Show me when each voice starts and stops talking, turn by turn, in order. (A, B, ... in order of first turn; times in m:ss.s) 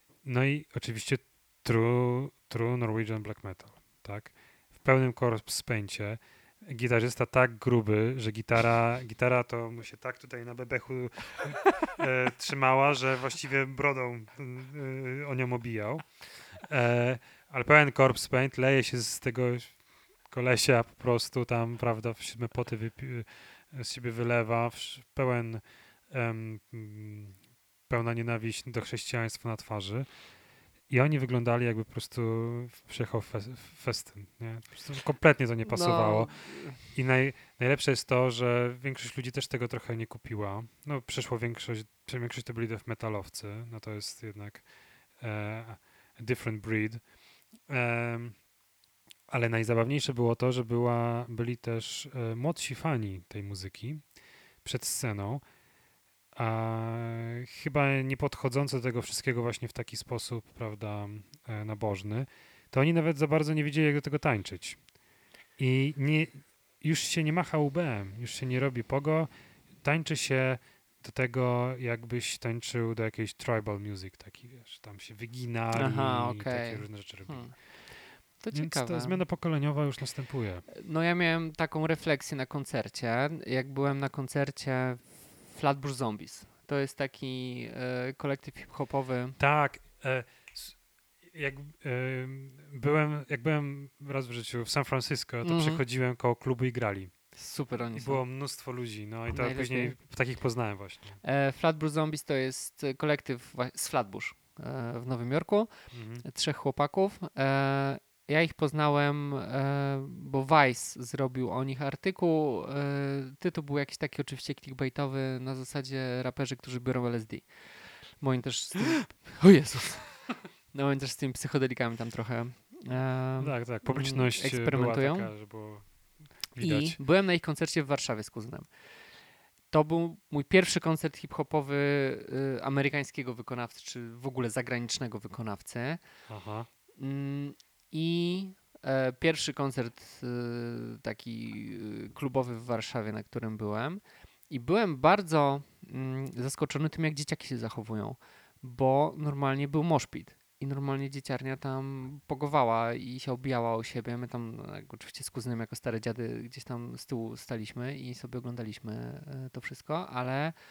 0:00.2-0:30.2 A
0:30.9-0:48.5 A
0:35.6-0:36.8 B
0:49.3-0:55.5 A
0:56.3-1:04.9 A
1:05.6-1:18.0 A
1:15.7-1:19.2 B
1:18.5-1:20.7 A
1:20.7-1:29.4 B
1:29.4-1:37.4 A
1:35.4-1:35.8 B
1:37.3-1:38.5 B
1:37.9-1:41.2 A
1:39.3-1:40.0 B
1:41.2-2:05.3 B
1:45.9-1:46.2 A
2:03.4-2:07.0 A
2:06.6-2:08.7 B
2:09.7-2:16.0 B
2:16.3-2:16.7 A
2:17.0-2:40.6 B